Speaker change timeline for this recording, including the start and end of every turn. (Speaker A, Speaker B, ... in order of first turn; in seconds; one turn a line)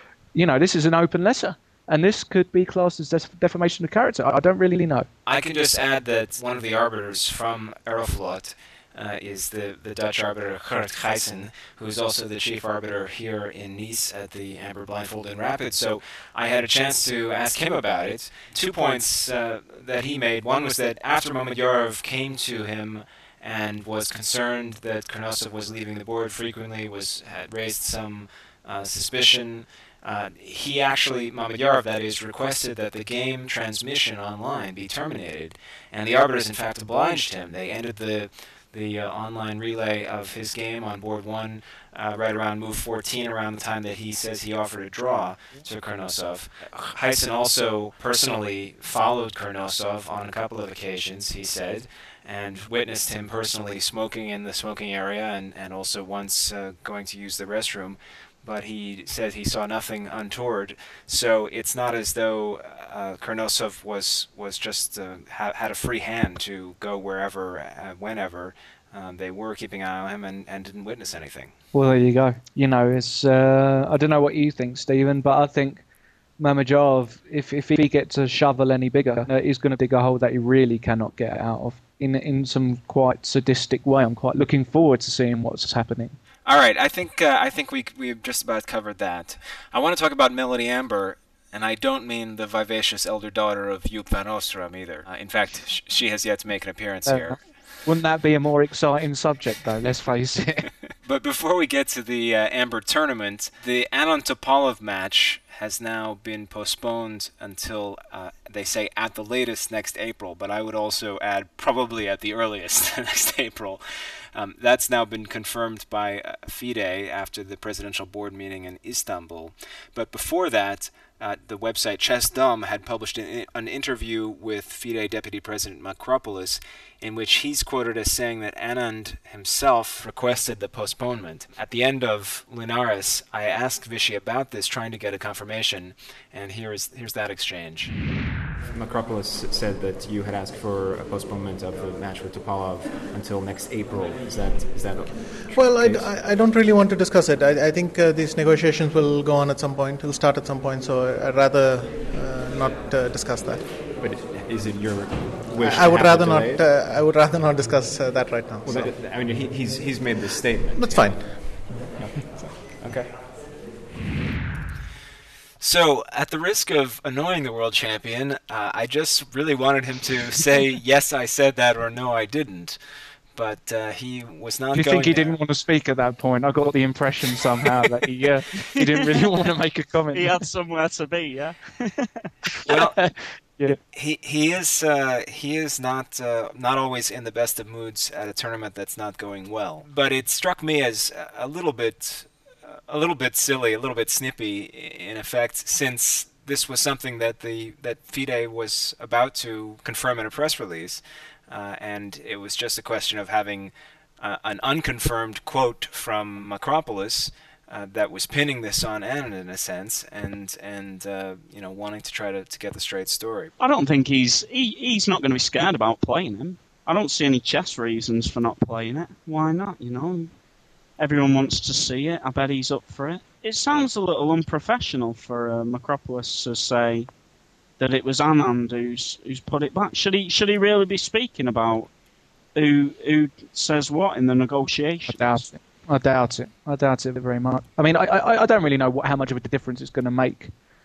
Speaker A: 0.3-5.1
Speaker B: 5.2-71.5
Speaker A: 71.7-75.8
Speaker A: 76.4-86.2
Speaker B: 86.5-97.4
Speaker A: 97.0-100.7
Speaker B: 101.0-113.8
Speaker B: 114.3-137.9
Speaker C: 138.6-146.1
Speaker D: 145.5-153.7
Speaker C: 154.0-156.7
Speaker D: 155.6-158.9
Speaker C: 158.6-161.3
Speaker D: 160.7-161.9
Speaker C: 161.9-163.2
Speaker B: 165.6-172.8
Speaker B: 173.3-175.4
Speaker A: 174.7-180.4
Speaker E: 180.1-182.3
Speaker B: 182.7-183.0
Speaker A: 182.7-183.8
Speaker B: 183.8-213.5
Speaker E: 213.6-220.3
Speaker E: 221.0-227.1
Speaker E: 227.8-231.9
Speaker E: 232.5-235.5
Speaker A: 235.1-240.5